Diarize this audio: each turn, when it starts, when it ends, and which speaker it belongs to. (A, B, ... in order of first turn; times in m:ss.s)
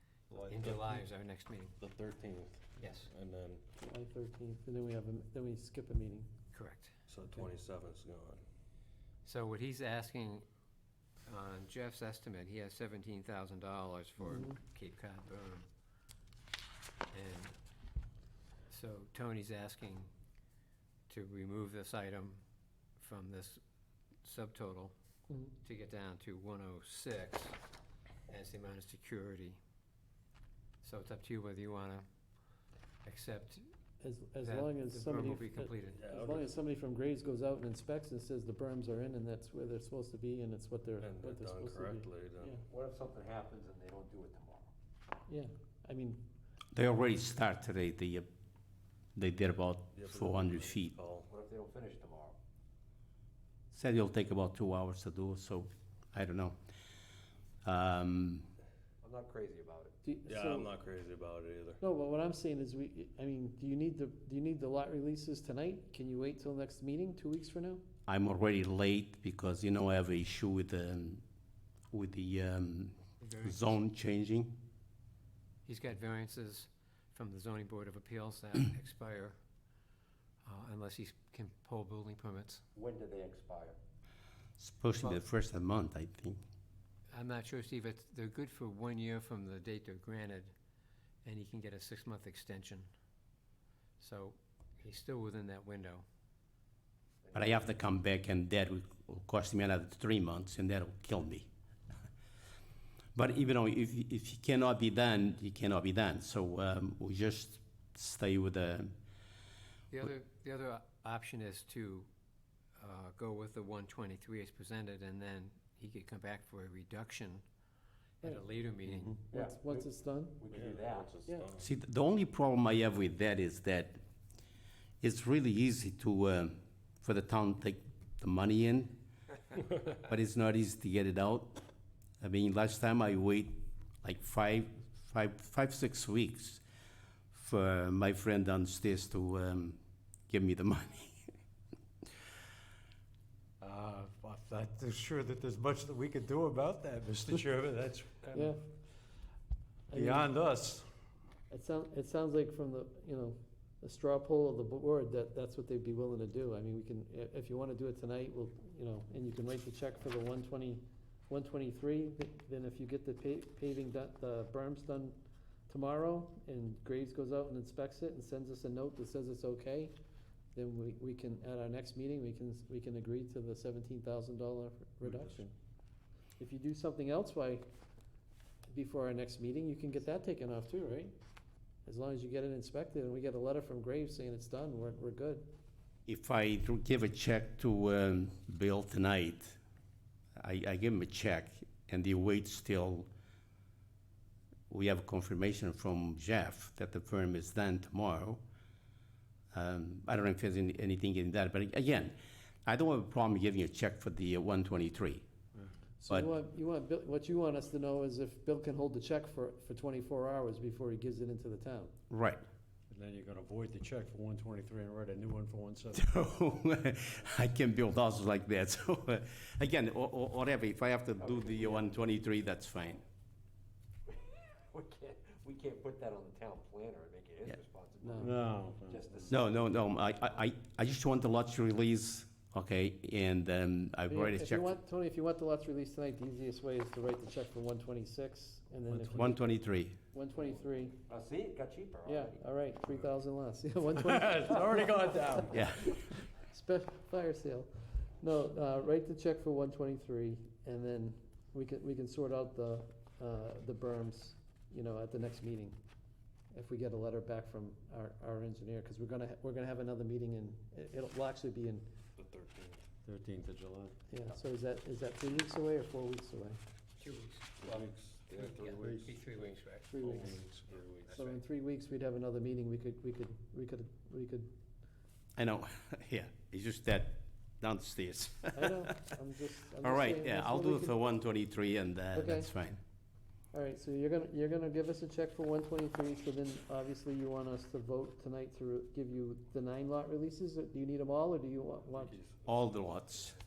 0:00.3-0:01.0 A
0:00.4-0:01.8 B
0:01.8-0:03.6 A
0:02.8-0:03.1 B
0:03.8-0:06.3 C
0:06.5-0:06.9 B
0:07.1-0:08.4 A
0:09.2-0:10.5 B
0:11.3-0:15.7 B
0:14.2-0:14.6 C
0:17.1-0:17.6 B
0:18.7-0:20.1 B
0:21.1-0:22.4 B
0:23.0-0:23.6 B
0:24.2-0:24.9 B
0:25.3-0:25.5 C
0:25.6-0:27.6 B
0:28.3-0:29.6 B
0:30.8-0:32.1 B
0:33.0-0:33.7 B
0:34.0-0:42.6 C
0:34.4-0:36.0 B
0:35.9-0:36.6 A
0:41.0-0:42.6 A
0:42.7-0:44.7 D
0:45.3-0:46.2 C
0:46.7-0:48.3 E
0:49.2-0:51.0 E
0:49.9-0:51.3 A
0:51.3-0:52.4 D
0:53.7-0:56.6 E
0:57.6-0:58.5 E
0:59.0-1:00.0 D
1:00.0-1:00.7 C
1:00.3-1:01.8 A
1:01.8-1:07.8 C
1:08.1-1:11.2 E
1:11.9-1:14.6 E
1:13.2-1:13.8 B
1:15.7-1:19.4 B
1:20.4-1:22.6 B
1:22.8-1:23.8 D
1:24.6-1:26.4 E
1:27.1-1:30.5 B
1:31.2-1:32.9 B
1:34.0-1:36.0 B
1:37.3-1:37.8 D
1:37.3-1:41.5 E
1:43.2-1:49.0 E
1:49.9-1:52.1 B
1:52.8-1:57.4 B
1:58.2-1:59.2 B
1:58.2-2:00.4 C
1:59.3-2:01.2 D
2:00.5-2:01.7 A
2:01.6-2:04.0 E
2:05.0-2:08.9 E
2:09.9-2:11.6 E
2:12.2-2:16.6 E
2:17.3-2:21.2 E
2:23.6-2:28.5 F
2:28.3-2:28.6 C
2:29.9-2:30.3 C
2:29.9-2:30.9 F
2:31.5-2:49.9 C
2:50.6-2:55.5 C
2:55.0-2:55.4 A
2:56.4-2:57.6 C
2:58.7-3:01.1 C
3:01.9-3:05.5 C
3:06.1-3:09.6 E
3:10.4-3:13.1 E
3:14.7-3:18.4 E
3:19.5-3:22.2 E
3:22.7-3:25.2 E
3:26.0-3:31.9 C
3:32.1-3:32.4 E
3:32.9-3:36.1 F
3:35.9-3:43.0 E
3:41.2-3:42.0 D
3:44.1-3:49.6 D
3:48.0-3:48.3 C
3:48.2-3:49.2 F
3:49.3-3:54.8 E
3:54.1-3:59.4 C
3:58.9-3:59.4 F
3:59.2-4:00.0 E
4:00.1-4:01.0 C
4:01.1-4:02.4 D
4:02.0-4:15.8 C
4:03.9-4:05.5 F
4:05.5-4:06.0 E
4:16.5-4:21.9 C
4:22.2-4:22.9 A
4:23.0-4:24.0 F
4:24.1-4:26.6 C
4:27.0-4:31.4 B
4:27.6-4:29.1 A
4:27.7-4:28.9 F
4:28.4-4:28.7 D
4:29.9-4:30.4 C
4:30.0-4:31.2 A
4:31.1-4:34.5 C
4:35.4-4:39.0 E
4:38.5-4:41.0 C
4:39.8-4:42.8 E
4:42.1-4:42.5 C
4:43.5-4:52.2 C
4:51.9-4:52.6 A
4:52.5-4:53.4 E